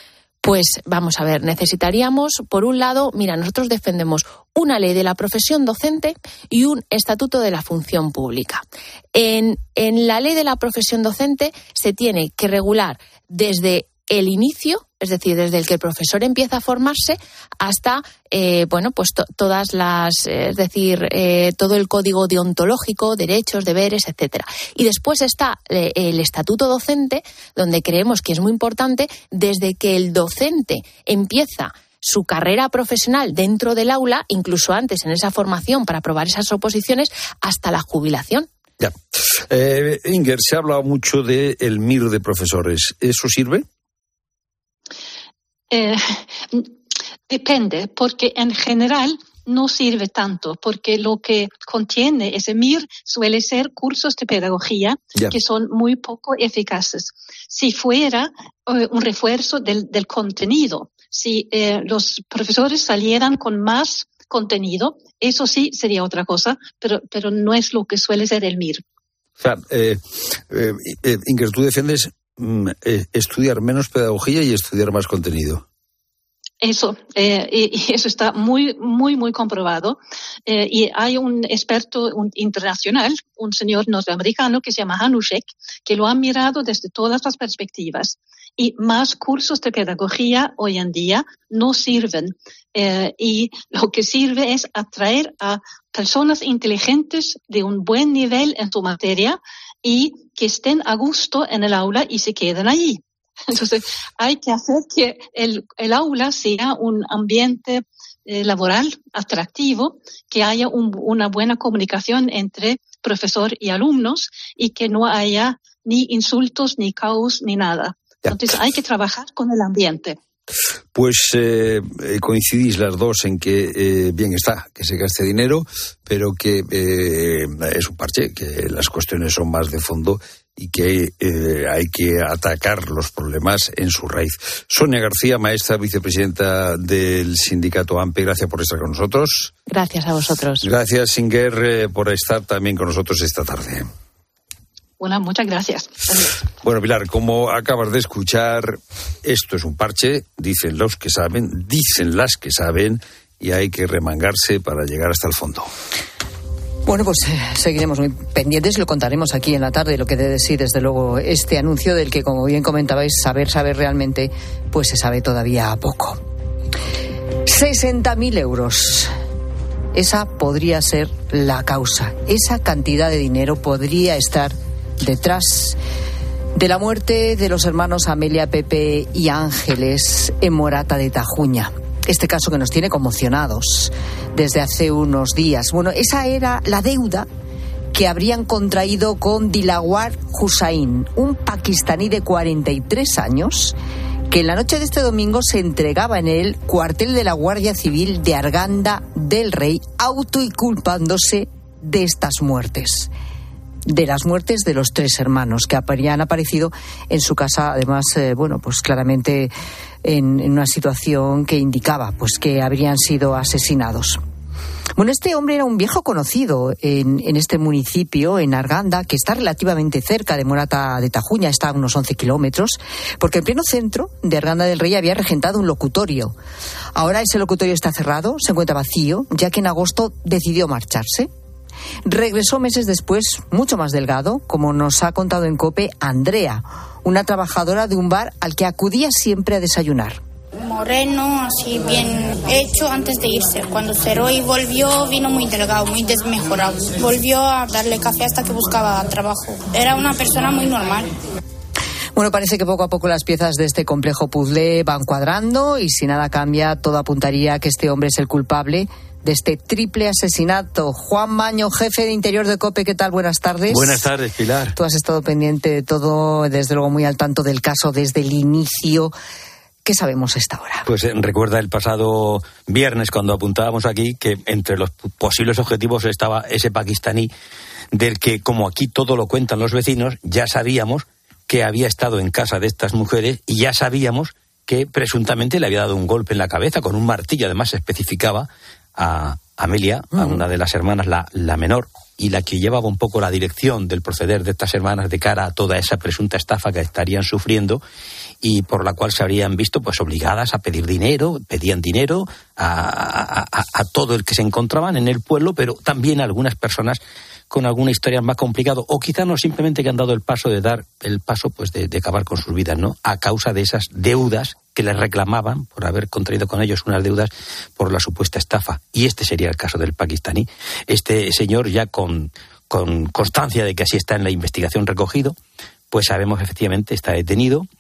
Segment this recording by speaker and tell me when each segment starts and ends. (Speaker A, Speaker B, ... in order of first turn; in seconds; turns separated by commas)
Speaker A: 0.4-8.6, Speaker A: 9.1-38.5, Speaker B: 38.8-43.6, Speaker C: 45.7-46.7, Speaker C: 47.3-68.8, Speaker B: 69.4-75.6, Speaker C: 76.6-120.2, Speaker B: 118.2-118.5, Speaker B: 120.9-139.5, Speaker A: 139.7-140.7, Speaker B: 140.6-143.9, Speaker C: 145.0-145.9, Speaker B: 146.6-155.7, Speaker D: 156.9-166.2, Speaker D: 167.4-169.1, Speaker D: 169.9-175.8, Speaker D: 176.5-187.3, Speaker D: 187.9-193.7, Speaker D: 194.3-203.1, Speaker D: 203.9-209.5, Speaker D: 210.0-214.2, Speaker D: 214.9-226.3, Speaker D: 226.9-231.3, Speaker D: 232.0-240.2, Speaker E: 240.6-251.1, Speaker D: 252.1-264.1, Speaker F: 263.7-264.7, Speaker D: 264.7-269.1, Speaker D: 269.8-270.9, Speaker F: 270.9-277.3, Speaker F: 277.9-297.8, Speaker F: 298.4-325.3, Speaker F: 325.9-327.7